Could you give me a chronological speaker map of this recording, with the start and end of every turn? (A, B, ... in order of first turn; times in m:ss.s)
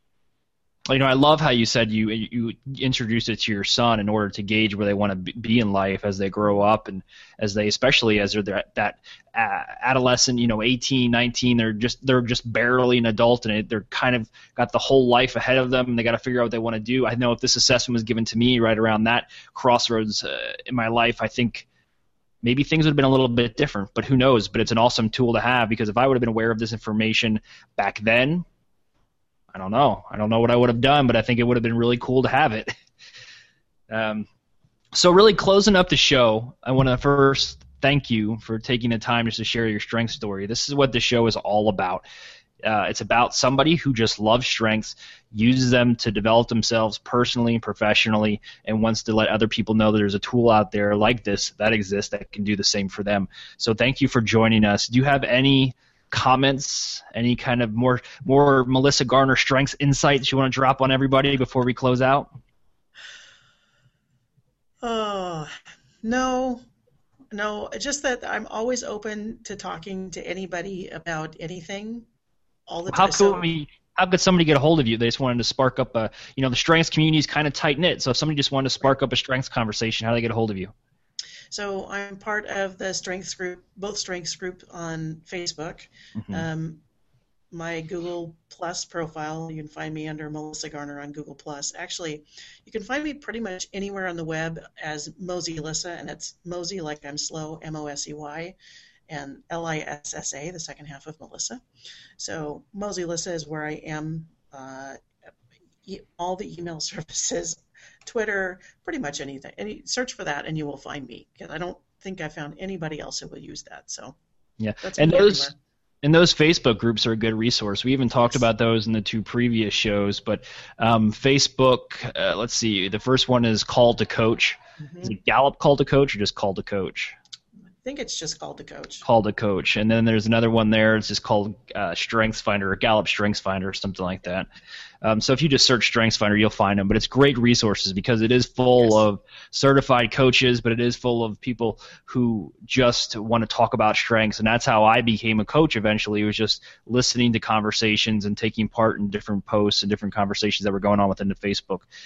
0:00.9-0:21.7 A
0:22.4-0:28.4 A
0:29.5-0:32.7 A
0:33.9-0:34.3 A
0:34.9-0:42.0 A
0:42.6-1:02.3 A
1:04.8-1:05.5 B
1:06.0-1:06.6 B
1:07.3-1:12.1 B
1:12.7-1:13.5 B
1:12.9-1:20.7 A
1:21.5-1:26.8 B
1:26.2-1:26.4 A
1:27.5-1:38.6 B
1:39.1-1:41.6 B
1:42.2-1:45.0 B
1:45.8-1:54.2 B
1:54.6-2:07.2 A
1:54.8-1:55.6 B
2:04.8-2:05.1 B
2:07.8-2:09.0 B
2:09.0-2:14.5 A
2:15.0-2:31.9 A